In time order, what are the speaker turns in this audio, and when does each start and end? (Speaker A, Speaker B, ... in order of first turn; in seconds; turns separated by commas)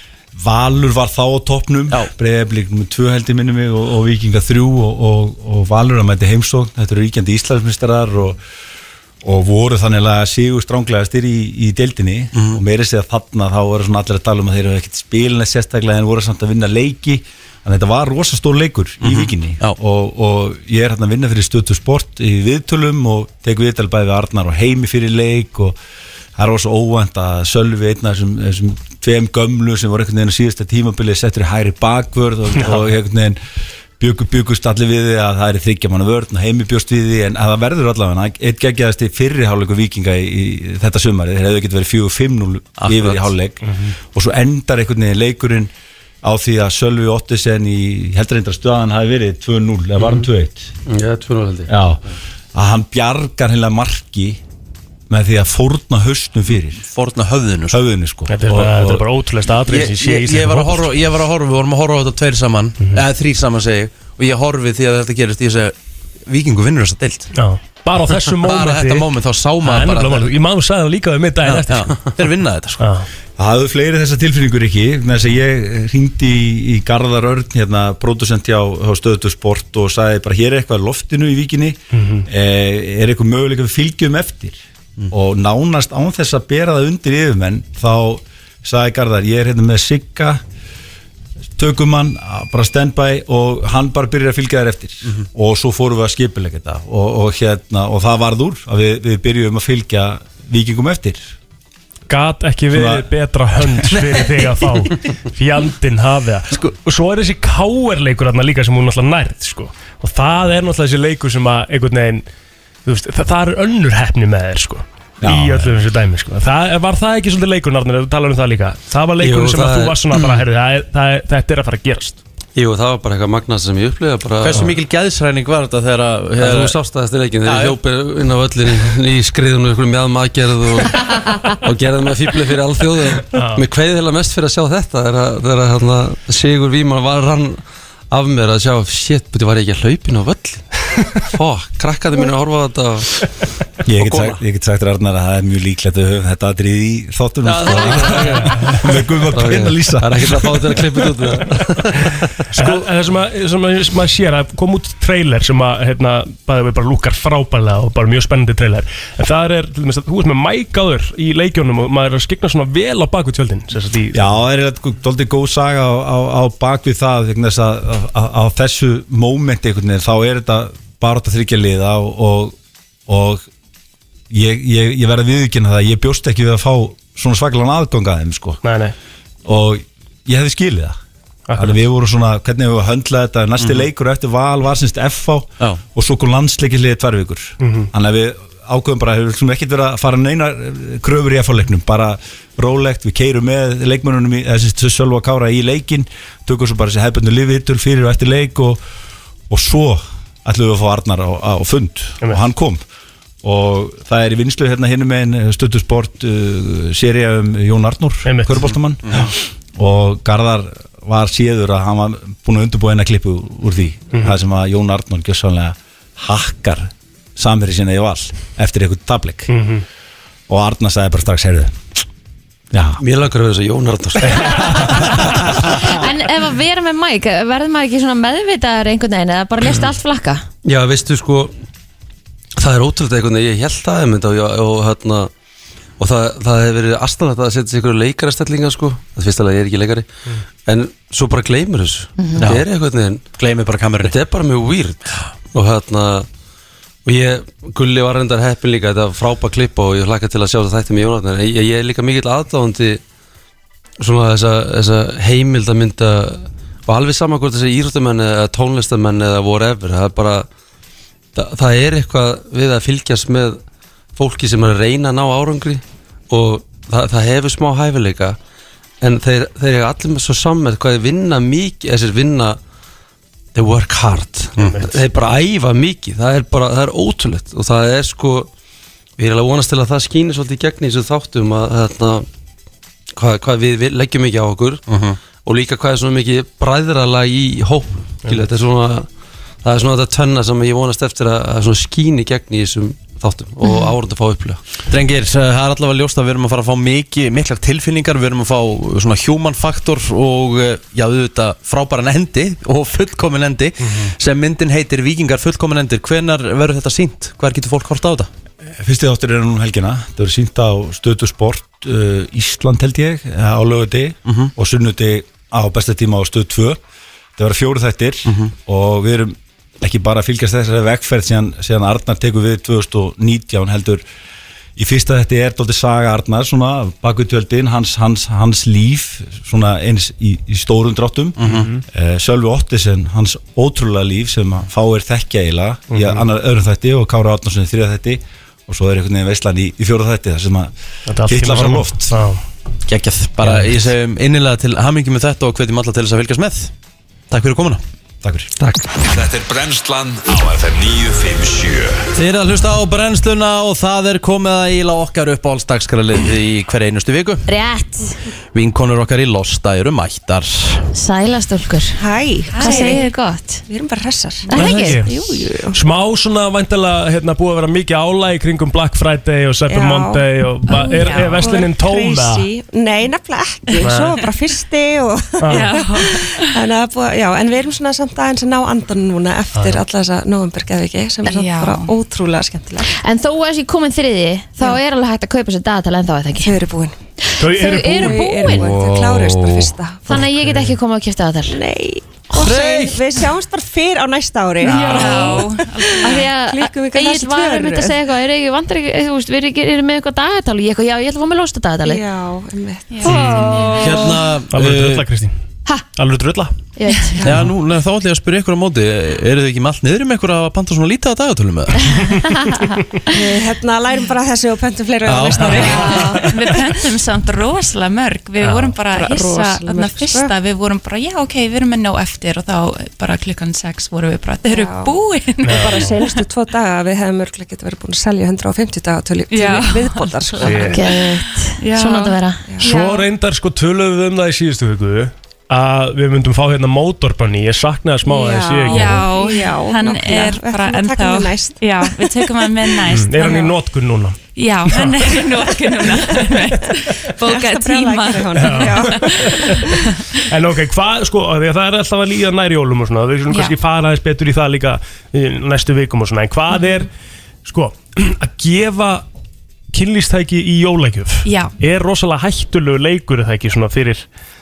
Speaker A: 0.3-8.4, Speaker A: 9.2-25.8, Speaker B: 12.3-12.6, Speaker B: 19.0-19.8, Speaker A: 26.4-33.4, Speaker A: 34.0-43.6, Speaker B: 42.8-43.3, Speaker A: 44.1-45.7, Speaker A: 46.2-50.7, Speaker C: 50.9-51.7, Speaker A: 51.7-52.0, Speaker A: 52.5-54.4, Speaker A: 55.1-56.8, Speaker B: 56.8-57.8, Speaker A: 57.7-59.0, Speaker D: 58.3-60.9, Speaker B: 59.7-65.7, Speaker B: 66.2-67.3, Speaker D: 67.3-69.1, Speaker B: 68.3-70.3, Speaker D: 69.6-72.1, Speaker B: 71.5-72.9, Speaker D: 72.8-73.1, Speaker A: 73.4-90.4, Speaker D: 81.9-82.2, Speaker A: 91.5-101.3, Speaker D: 102.1-112.2, Speaker A: 102.7-103.1, Speaker A: 103.8-104.2, Speaker D: 112.8-122.2, Speaker A: 115.2-115.8, Speaker C: 119.2-120.0, Speaker B: 120.2-120.4, Speaker C: 122.5-124.7, Speaker B: 124.4-126.8, Speaker C: 126.4-143.2, Speaker B: 127.4-127.8, Speaker D: 133.3-133.6, Speaker A: 143.8-150.8, Speaker C: 144.0-144.4, Speaker C: 147.5-148.6, Speaker B: 147.5-148.2, Speaker D: 148.3-148.7, Speaker C: 149.3-152.1, Speaker B: 152.5-152.9, Speaker D: 152.6-164.4, Speaker A: 164.1-172.5, Speaker A: 173.1-173.4, Speaker A: 174.3-178.6, Speaker D: 178.6-178.9, Speaker A: 179.4-181.0, Speaker D: 181.5-181.8, Speaker A: 181.5-198.8, Speaker B: 183.6-183.8, Speaker D: 187.6-187.9, Speaker A: 199.5-202.8, Speaker A: 203.4-219.5, Speaker D: 208.2-208.5, Speaker D: 219.5-219.8, Speaker A: 220.5-222.0, Speaker A: 222.7-223.0, Speaker C: 223.0-225.3, Speaker E: 225.7-230.4, Speaker C: 230.6-231.5, Speaker C: 232.6-235.3, Speaker C: 236.0-240.1, Speaker C: 240.7-243.2, Speaker E: 242.2-242.5, Speaker B: 242.4-242.7, Speaker B: 243.3-244.1, Speaker C: 244.0-246.3, Speaker C: 247.0-253.0, Speaker C: 254.0-260.4, Speaker C: 261.3-263.6, Speaker C: 264.1-268.4, Speaker C: 269.0-272.6, Speaker C: 273.5-278.5, Speaker B: 274.6-274.8, Speaker D: 274.6-274.9, Speaker C: 279.2-282.2, Speaker C: 283.1-284.8, Speaker B: 284.9-285.2, Speaker C: 285.4-289.1, Speaker C: 289.6-294.6, Speaker E: 293.6-293.9, Speaker B: 294.9-308.3, Speaker A: 308.8-316.8, Speaker A: 317.4-324.0, Speaker B: 318.3-318.5, Speaker A: 324.8-331.4, Speaker B: 331.4-331.7, Speaker D: 331.4-331.8, Speaker A: 331.9-342.2, Speaker D: 335.9-336.2, Speaker D: 341.1-342.4, Speaker B: 342.9-346.7, Speaker D: 343.4-343.8, Speaker B: 347.3-347.8, Speaker A: 348.2-348.5, Speaker F: 349.0-352.1, Speaker B: 352.1-357.4, Speaker E: 357.5-358.2, Speaker B: 358.5-360.8, Speaker E: 360.9-362.0, Speaker G: 361.9-363.1, Speaker E: 362.5-363.6, Speaker H: 362.6-363.0, Speaker G: 363.7-365.8, Speaker E: 364.5-365.5, Speaker D: 364.5-372.5, Speaker G: 369.7-382.9, Speaker H: 370.7-371.5, Speaker D: 373.8-374.2, Speaker D: 375.4-376.0, Speaker H: 375.5-376.5, Speaker H: 381.2-381.9, Speaker E: 382.9-386.6, Speaker G: 386.4-386.9, Speaker E: 387.2-388.7, Speaker D: 387.4-388.2, Speaker G: 387.9-390.3, Speaker B: 388.6-389.7, Speaker E: 390.1-391.6, Speaker G: 391.5-398.0, Speaker B: 392.3-393.1, Speaker H: 394.6-396.3, Speaker E: 394.7-395.4, Speaker E: 396.0-402.0, Speaker G: 401.8-404.0, Speaker H: 402.9-404.0, Speaker E: 403.0-404.1, Speaker D: 403.1-403.4, Speaker B: 403.7-405.1, Speaker D: 404.5-405.3, Speaker D: 405.9-406.5, Speaker E: 406.8-407.3, Speaker H: 406.9-407.2, Speaker B: 407.2-412.2, Speaker G: 413.1-416.1, Speaker B: 415.0-416.3, Speaker D: 415.4-416.3, Speaker E: 415.6-416.2, Speaker H: 416.3-426.2, Speaker D: 418.4-418.8, Speaker G: 418.9-420.3, Speaker G: 424.5-431.1, Speaker D: 425.4-426.0, Speaker H: 429.3-433.0, Speaker D: 430.4-430.8, Speaker E: 430.7-432.4, Speaker G: 432.4-432.9, Speaker D: 432.6-439.1, Speaker G: 438.0-442.2, Speaker H: 438.7-443.5, Speaker D: 442.8-445.1, Speaker G: 443.2-443.5, Speaker H: 444.3-450.2, Speaker G: 445.3-449.7, Speaker D: 448.3-456.9, Speaker H: 453.3-453.6, Speaker D: 457.4-459.1, Speaker D: 459.7-464.1, Speaker H: 461.2-461.5